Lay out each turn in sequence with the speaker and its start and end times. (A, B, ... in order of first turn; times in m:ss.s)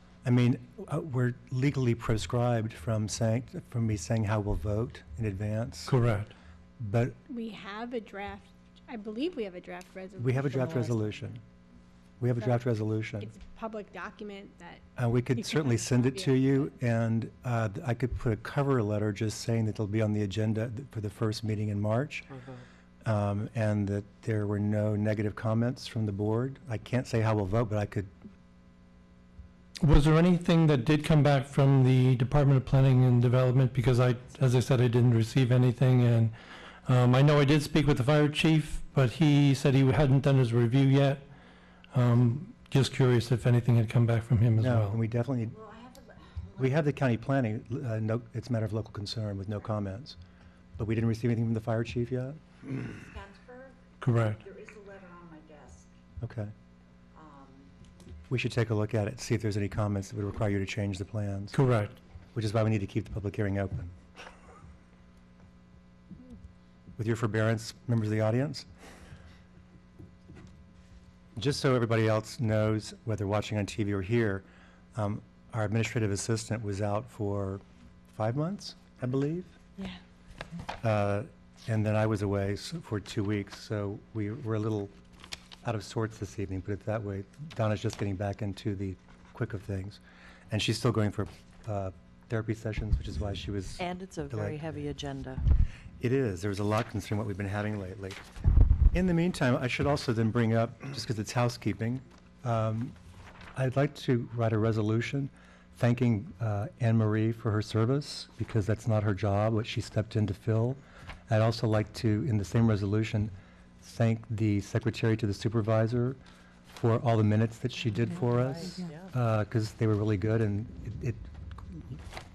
0:00.2-0:05.9 A
0:05.9-0:06.3 B
0:06.8-0:07.2 A
0:07.3-0:11.0 C
0:10.2-0:11.4 A
0:12.2-0:13.3 A
0:13.2-0:16.7 C
0:15.0-0:22.2 A
0:23.0-0:28.1 A
0:29.8-0:36.3 B
0:36.9-0:41.2 B
0:41.9-0:45.0 B
0:44.6-0:45.6 A
0:45.5-0:46.8 D
0:46.6-0:50.2 A
0:50.8-0:52.4 A
0:52.8-0:55.9 D
0:54.0-0:54.4 B
0:56.2-0:56.5 A
0:57.1-0:57.7 D
0:58.3-1:01.6 A
1:01.5-1:02.0 B
1:02.3-1:03.9 A
1:07.0-1:08.7 A
1:11.4-1:19.6 A
1:20.8-1:24.9 A
1:25.6-1:34.9 A
1:33.8-1:35.4 E
1:36.0-1:38.2 A
1:38.9-1:43.0 A
1:43.6-1:56.2 A
1:56.7-2:02.0 A
1:58.7-1:59.0 E